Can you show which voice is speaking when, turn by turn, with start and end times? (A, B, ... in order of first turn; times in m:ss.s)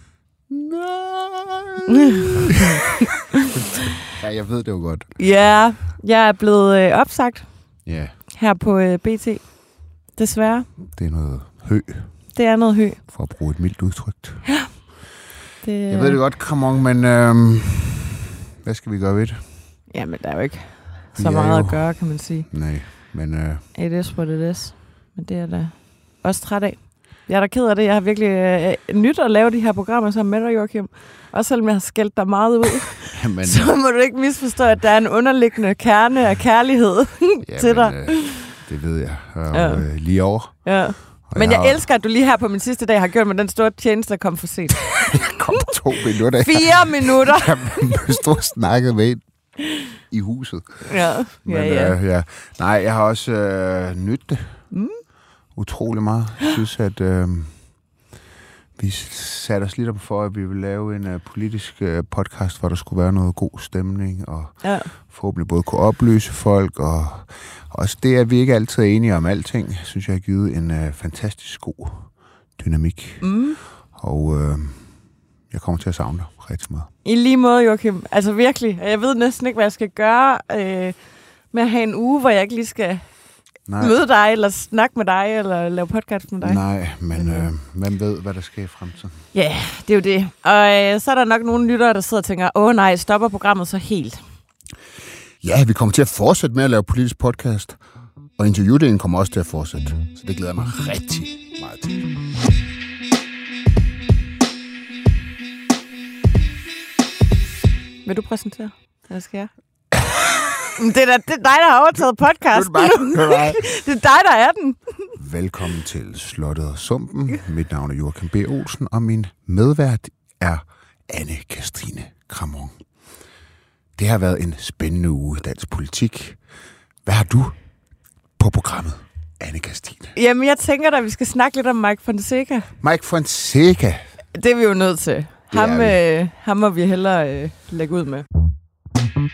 0:00.5-0:02.2 A
0:04.1-0:05.8 A
0:05.2-0:10.7 B
0:07.8-0:08.2 A
0:10.9-0:14.8 A
0:12.3-0:13.0 B
0:15.6-0:16.2 B
0:15.9-0:19.7 A
0:19.9-0:22.5 B
0:21.1-0:23.7 A
0:23.7-0:38.2 B
0:33.1-0:33.9 A
0:37.4-0:41.9 A
0:39.5-0:45.4 B
0:45.1-0:54.9 A
0:46.4-0:48.0 B
0:50.9-0:52.0 B
0:54.7-0:55.0 B
0:55.5-0:58.1 A
0:58.8-1:16.9 A
1:04.6-1:04.9 B
1:13.2-1:13.6 B
1:17.0-1:27.5 B
1:23.6-1:24.0 A
1:26.4-1:29.3 A
1:29.3-1:34.3 B
1:35.4-1:42.2 A
1:48.0-1:50.0 B
1:50.8-1:55.1 B
1:52.5-1:53.9 A
1:55.1-2:03.3 A
2:03.9-2:10.1 A
2:10.1-2:12.7 B
2:12.8-2:14.1 A
2:14.3-2:18.2 B
2:15.5-2:16.0 A